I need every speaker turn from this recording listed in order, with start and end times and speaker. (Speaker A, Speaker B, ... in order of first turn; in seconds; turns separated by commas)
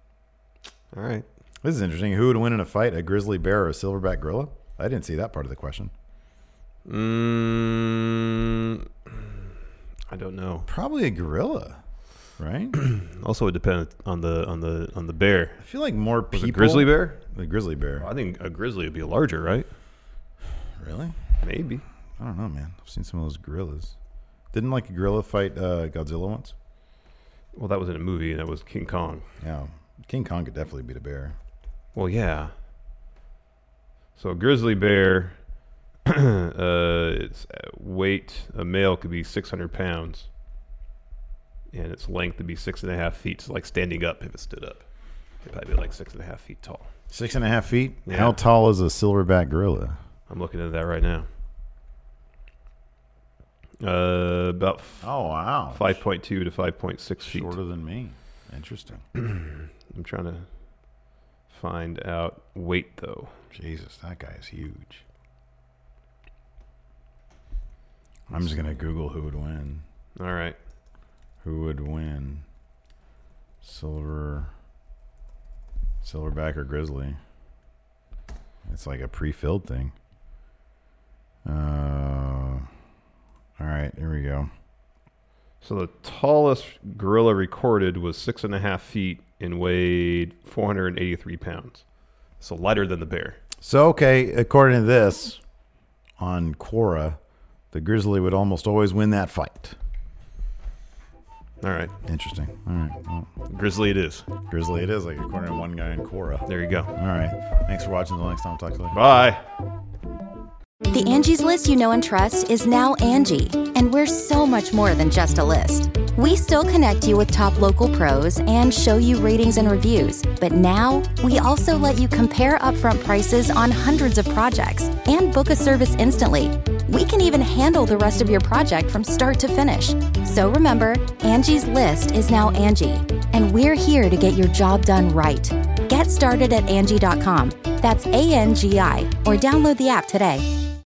Speaker A: 0.9-1.2, Speaker B: 1.6-5.9, Speaker A: 6.8-9.3, Speaker A: 10.1-10.7, Speaker B: 10.7-11.8, Speaker B: 12.4-12.8, Speaker A: 12.8-15.6, Speaker B: 15.6-18.1, Speaker A: 16.3-17.2, Speaker A: 18.0-19.7, Speaker B: 20.8-21.1, Speaker A: 21.4-21.8, Speaker B: 22.2-23.9, Speaker B: 24.5-26.5, Speaker A: 27.5-29.2, Speaker B: 29.4-31.4, Speaker A: 31.9-32.5, Speaker A: 34.2-35.3, Speaker A: 36.0-40.3, Speaker A: 41.7-44.8, Speaker A: 45.5-46.9, Speaker B: 47.1-50.0, Speaker A: 48.1-48.4, Speaker A: 50.3-51.3, Speaker A: 53.8-55.1, Speaker B: 55.0-56.0, Speaker A: 55.7-57.5, Speaker B: 57.3-59.0, Speaker A: 59.2-60.4, Speaker A: 61.5-63.3, Speaker B: 63.5-65.0, Speaker B: 68.3-69.8, Speaker A: 70.2-70.6, Speaker B: 71.4-72.4, Speaker B: 73.6-74.5, Speaker B: 76.0-77.2, Speaker B: 78.7-79.9, Speaker B: 81.5-82.7, Speaker B: 83.6-84.5, Speaker A: 85.6-91.8, Speaker A: 92.4-93.4, Speaker B: 93.6-95.4, Speaker B: 96.2-97.2, Speaker B: 97.7-99.8, Speaker A: 101.6-101.9, Speaker B: 102.0-103.3, Speaker A: 103.5-104.2, Speaker B: 104.5-109.0, Speaker A: 106.5-106.9, Speaker A: 108.9-109.4, Speaker C: 110.9-140.4